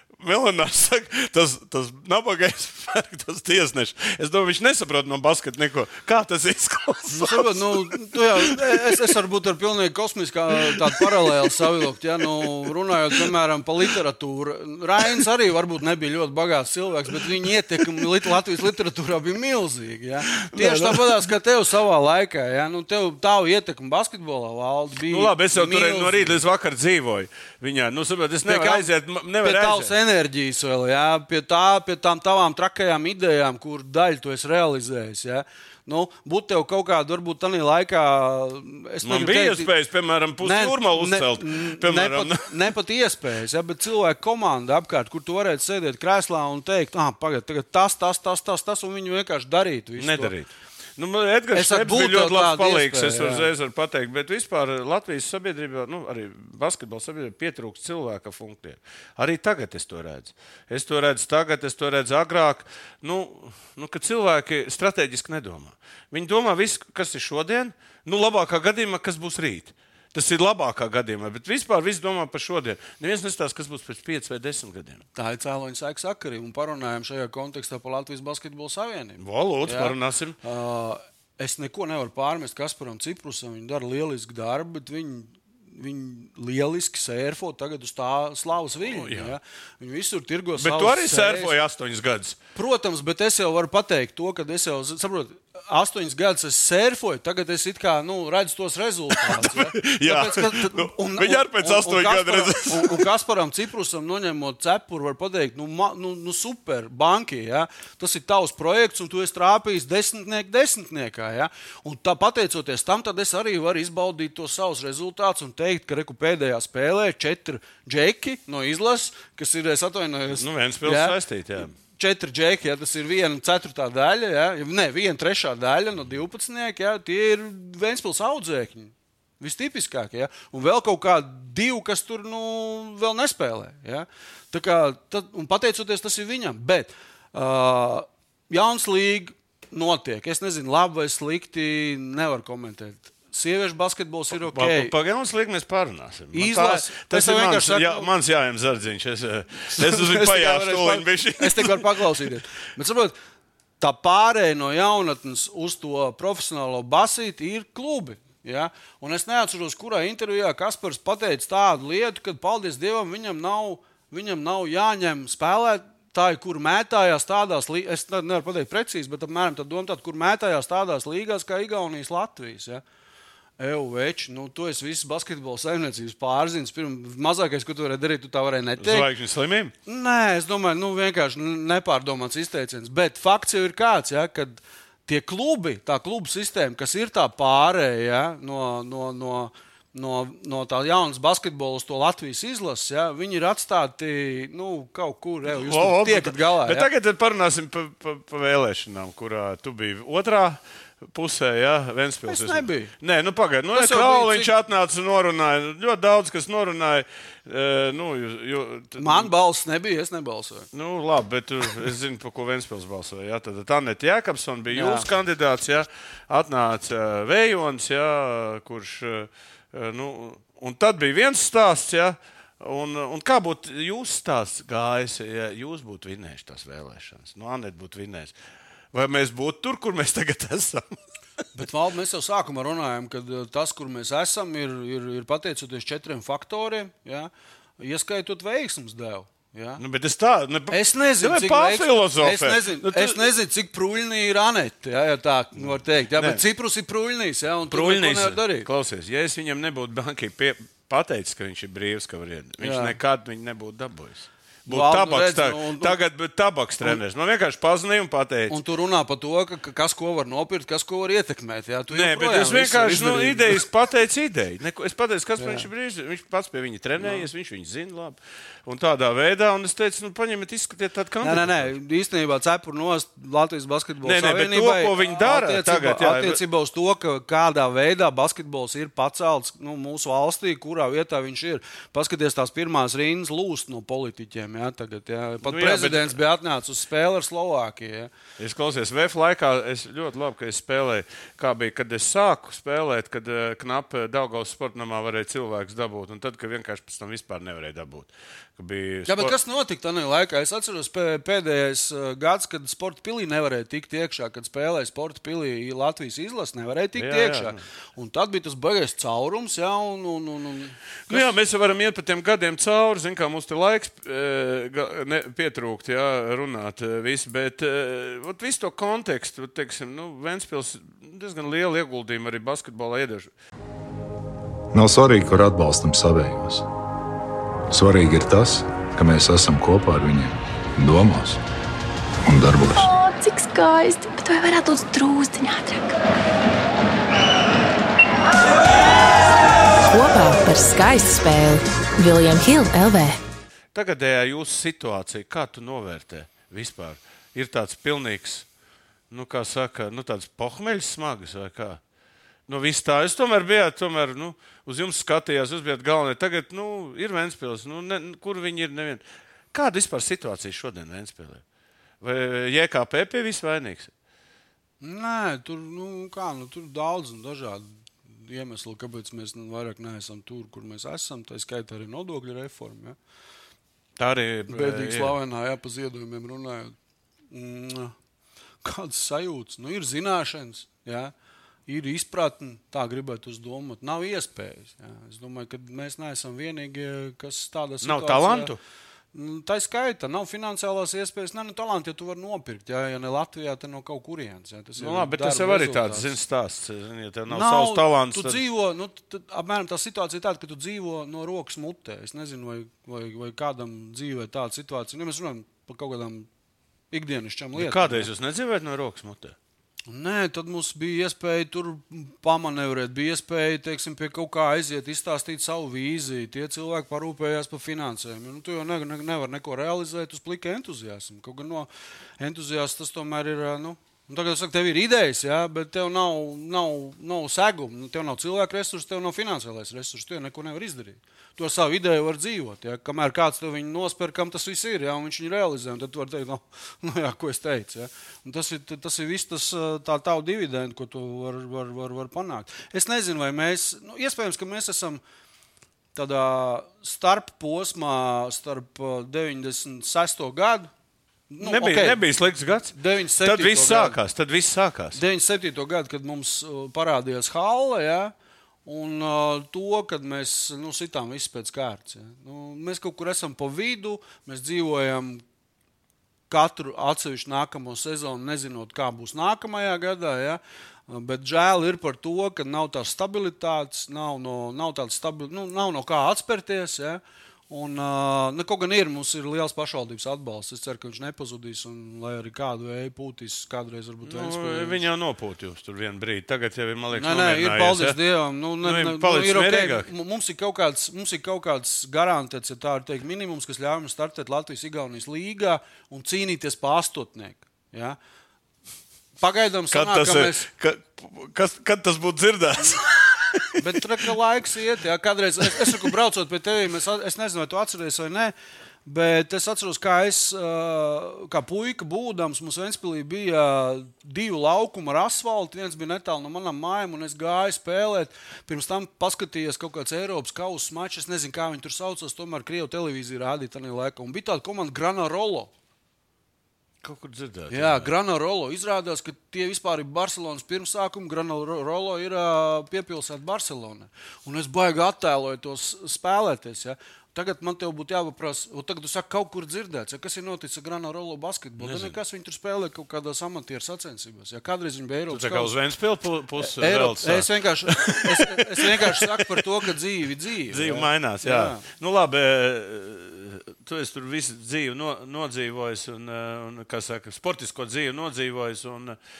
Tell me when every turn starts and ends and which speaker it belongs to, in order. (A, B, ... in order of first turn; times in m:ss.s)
0:00.2-0:09.0 A
0:07.1-0:26.4 B
0:10.7-0:11.6 A
0:20.3-0:21.2 A
0:25.1-0:29.9 A
0:28.4-0:28.9 B
0:29.4-0:39.7 B
0:39.0-0:42.5 A
0:40.4-0:50.3 B
0:50.0-1:15.0 A
0:51.5-0:53.5 B
1:15.1-1:31.5 B
1:19.2-1:20.4 A
1:28.8-1:29.3 A
1:30.6-1:32.4 A
1:32.6-2:24.9 B
1:39.1-1:43.1 A
2:00.3-2:01.7 A
2:24.4-2:32.0 A
2:26.3-2:28.1 B
2:29.8-2:33.2 B
2:33.8-2:52.8 B
2:53.6-2:59.1 B
2:58.8-2:59.7 A
2:59.8-3:16.9 B
3:15.5-3:20.6 A
3:21.1-3:29.3 A
3:22.2-3:22.9 B
3:23.7-3:24.5 B
3:29.0-3:30.7 B
3:30.7-3:48.3 A
3:34.7-3:35.1 B
3:48.9-3:51.0 A
3:51.5-3:59.8 B
3:59.8-4:03.2 A
4:00.7-4:08.7 B
4:05.7-4:06.4 A
4:07.7-4:18.6 A
4:12.6-4:13.0 B
4:14.7-4:15.9 B
4:18.5-4:23.6 B
4:21.9-4:31.7 A
4:25.4-4:25.7 B
4:27.0-4:27.3 B
4:31.2-4:48.1 B
4:34.0-4:36.4 A
4:45.4-4:46.2 A
4:48.4-4:59.3 A
4:59.1-5:11.3 B
5:07.0-5:07.6 A
5:11.1-5:23.3 A
5:24.7-5:26.7 C
5:27.7-5:31.4 C
5:32.2-5:32.9 C
5:32.8-5:36.0 D
5:39.8-5:43.2 E
5:43.7-5:48.4 A
5:49.1-5:51.8 A
5:52.5-5:59.0 A
5:59.5-6:01.4 A
6:02.0-6:03.9 A
6:04.8-6:13.0 B
6:14.0-6:15.2 A
6:14.5-6:16.7 B
6:17.3-6:17.9 B
6:18.6-6:21.1 B
6:21.7-6:28.5 B
6:27.8-6:28.6 A
6:29.1-6:36.1 B
6:34.8-6:38.4 A
6:37.3-6:46.3 B
6:46.9-6:48.1 B
6:47.6-6:49.3 A
6:49.9-7:01.7 B
7:02.2-7:25.0 B
7:25.9-7:30.7 B
7:31.3-7:32.0 B
7:31.4-7:35.0 A
7:32.7-7:34.0 B
7:34.9-7:38.1 B
7:38.6-7:45.2 B
7:46.3-8:04.8 B
8:04.0-8:08.0 A
8:06.9-8:18.0 B
8:08.6-8:09.9 A
8:19.2-8:20.4 B
8:19.7-8:23.8 A
8:23.6-8:28.3 B
8:28.8-8:45.5 B
8:46.8-8:47.9 A
8:47.5-9:05.5 B
9:01.6-9:02.0 A
9:05.1-9:09.4 A
9:06.4-9:11.6 B
9:10.5-9:19.0 A